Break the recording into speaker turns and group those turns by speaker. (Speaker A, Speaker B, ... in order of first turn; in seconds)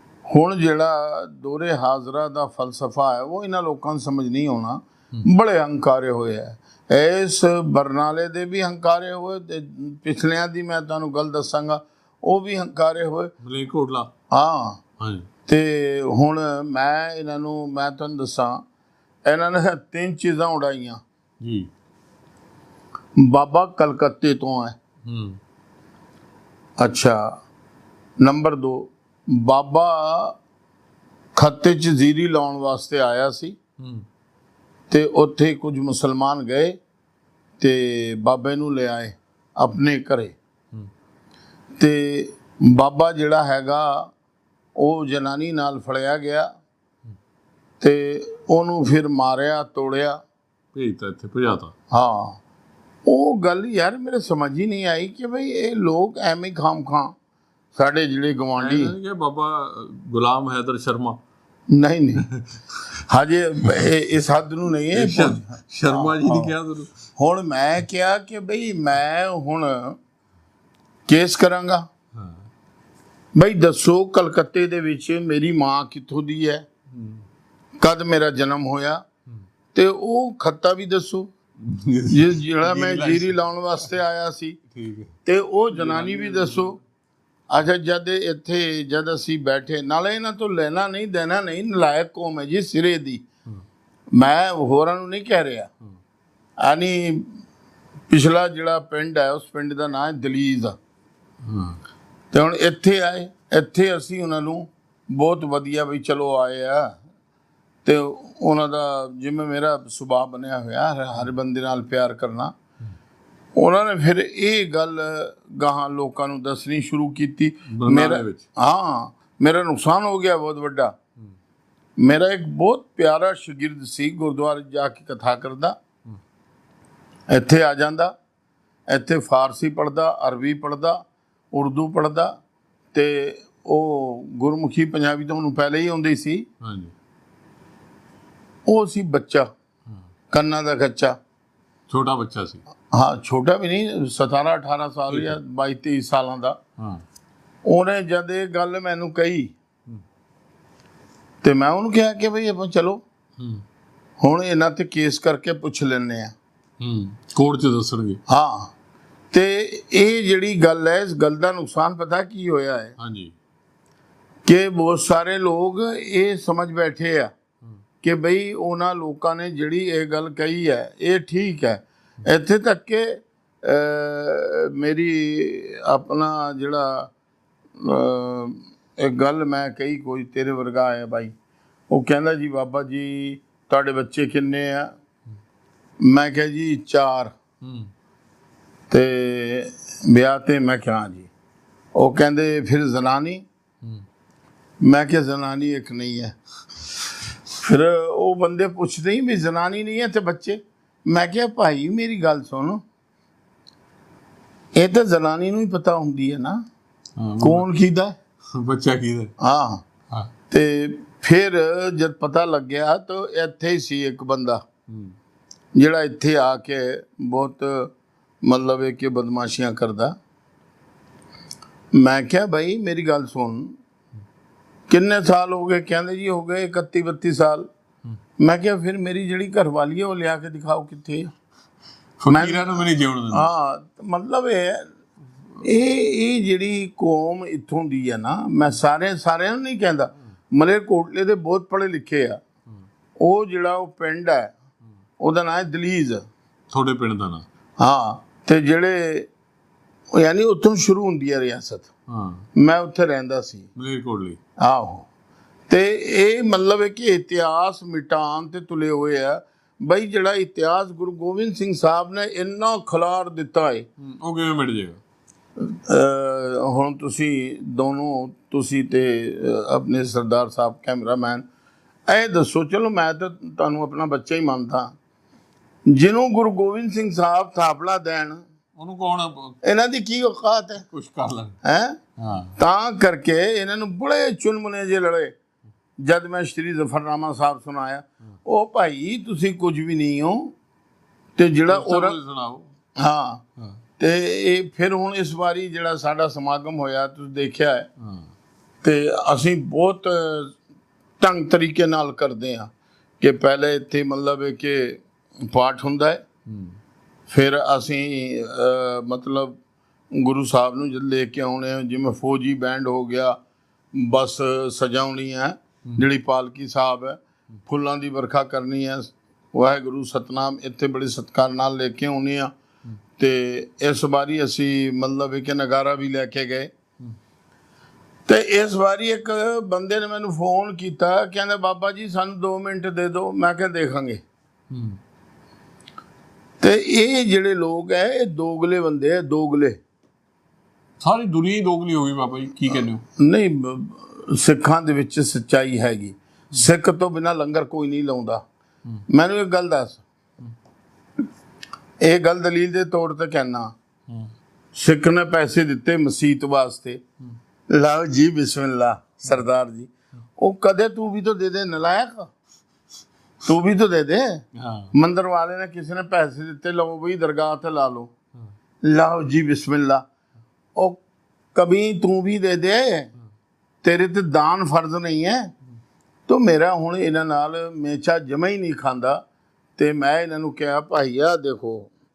Speaker A: 0.3-13.3, 14.3-14.8, 15.5-18.6, 19.2-21.0, 23.2-24.8, 26.8-27.4, 28.2-30.4, 31.4-33.6, 34.9-36.8, 37.6-40.4, 41.8-44.1, 44.8-46.5, 47.8-50.2, 51.9-52.4, 53.0-57.1, 57.7-59.0, 61.7-62.3, 62.9-66.5, 67.2-70.0, 71.1-71.9, 73.3-76.7, 77.8-79.0, 79.7-81.3, 82.1-84.6, 85.2-86.8, 87.5-93.2, 94.1-95.7, 96.6-97.4, 98.1-100.8, 102.3-107.0, 107.8-112.5, 113.6-121.0, 122.0-125.8, 127.3-128.1, 128.9-131.0, 131.5-132.4, 132.9-136.5, 138.7-139.5, 140.3-141.2, 142.9-146.6, 147.7-149.5, 151.4-153.0, 154.2-156.3, 158.3-158.7, 159.3-162.9, 164.4-167.3, 168.0-177.1, 177.8-181.3, 181.9-184.9, 186.0-187.3, 188.9-191.3, 191.9-193.4, 194.8-196.3, 197.5-202.8, 204.7-206.6, 207.4-208.2, 209.4-209.8, 210.5-214.6, 215.8-220.2, 221.9-223.8, 224.9-227.7, 228.4-231.3, 232.3-234.9, 235.6-242.4, 243.2-244.5, 245.2-246.3, 247.8-249.3, 250.1-251.9, 252.6-253.7, 254.6-255.1, 255.7-263.9, 265.6-271.5, 272.1-274.9, 275.9-278.4, 279.6-280.9, 281.6-282.0, 282.6-285.3, 286.0-290.6, 291.4-292.2, 293.0-293.4, 294.0-297.9, 298.8-300.6, 301.2-306.2, 307.3-309.6, 310.1-313.4, 313.9-322.5, 323.2-326.7, 328.3-334.2, 336.6-339.8, 343.2-348.4, 349.1-350.0, 352.0-353.7, 354.7-357.0, 357.7-362.3, 363.4-368.1, 368.8-370.1, 370.8-371.0, 371.5-373.1, 373.8-375.5, 376.3-379.2, 379.8-381.9
Speaker B: 13.4-14.1, 15.0-15.3, 21.4-21.7, 25.1-25.4, 33.8-34.0, 50.8-51.7, 58.6-61.2, 62.3-62.9, 64.9-67.0, 72.1-72.4, 76.9-77.2, 81.6-83.4, 84.7-85.1, 85.8-86.8, 101.4-101.8, 117.7-118.5, 136.6-136.9, 141.9-142.6, 146.8-147.0, 153.4-153.6, 156.8-158.2, 163.0-163.3, 187.6-187.9, 207.2-207.7, 208.5-209.3, 214.9-215.2, 232.2-233.5, 246.7-247.5, 252.1-252.5, 253.8-254.4, 264.0-265.0, 278.8-279.6, 280.9-281.6, 282.2-282.6, 291.7-292.7, 298.0-298.3, 306.5-306.8, 334.7-335.0, 341.0-343.0, 364.6-364.9